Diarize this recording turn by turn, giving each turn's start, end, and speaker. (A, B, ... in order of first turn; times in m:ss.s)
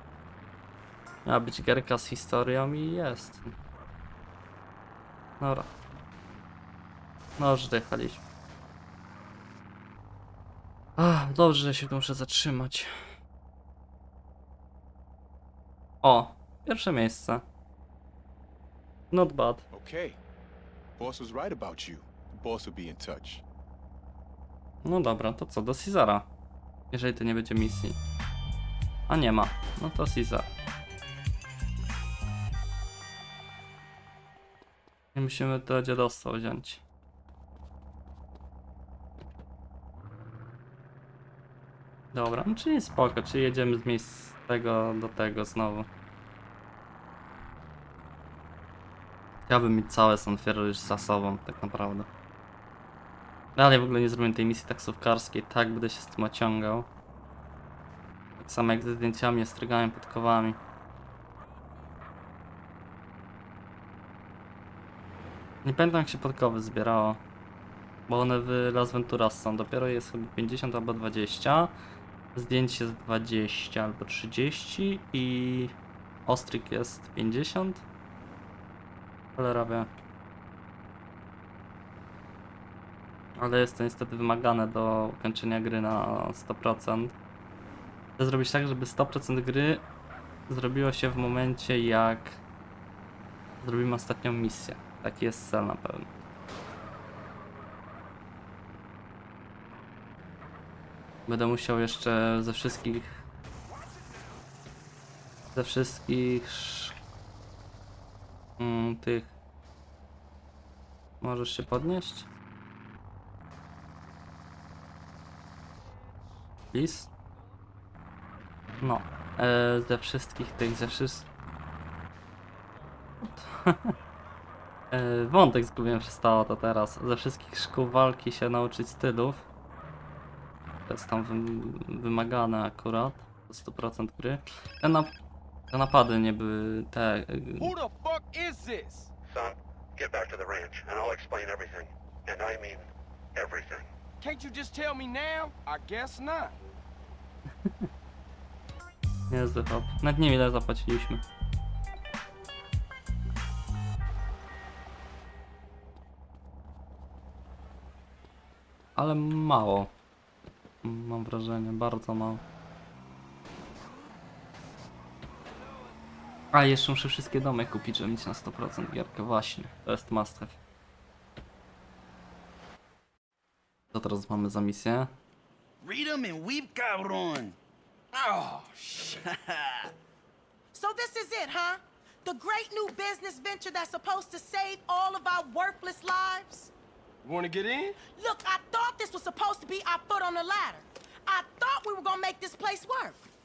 0:01.3-0:03.5 A
0:05.4-0:05.7 A
0:07.4-0:08.2 A
0:11.0-0:12.9 A
0:16.0-0:17.4 A
0:19.1-0:19.6 A
0:19.7-0:20.2 B
0:21.0-0:23.4 B
0:24.8-0:26.3 A
0:26.9-0:28.0 A
0:29.1-0:30.5 A
0:35.1-0:36.8 A
0:42.1-0:45.9 A
0:49.5-0:52.1 A
0:53.6-0:56.9 A
0:58.4-1:00.6 A
1:05.6-1:07.2 A
1:08.1-1:11.8 A
1:12.4-1:15.7 A
1:16.3-1:17.8 A
1:19.4-1:19.9 A
1:23.4-1:27.2 A
1:28.2-1:29.8 A
1:30.5-1:32.4 A
1:33.6-1:36.1 A
1:41.3-1:43.2 A
1:43.7-1:44.4 C
1:45.5-1:47.0 A
1:48.6-1:49.3 A
1:51.2-1:52.3 A
1:56.7-1:57.1 A
1:58.8-2:01.3 A
2:03.2-2:03.9 A
2:04.9-2:09.4 A
2:10.9-2:15.1 A
2:15.7-2:17.7 A
2:17.6-2:19.1 C
2:19.3-2:23.9 D
2:24.2-2:26.6 C
2:29.3-2:31.2 A
2:39.0-2:39.9 A
2:40.8-2:42.4 A
2:46.5-2:50.6 A
2:53.9-2:55.1 A
2:55.8-2:57.6 E
2:58.1-2:59.2 C
2:59.3-2:59.9 E
3:00.7-3:06.7 F
3:07.2-3:08.0 C
3:08.1-3:13.2 F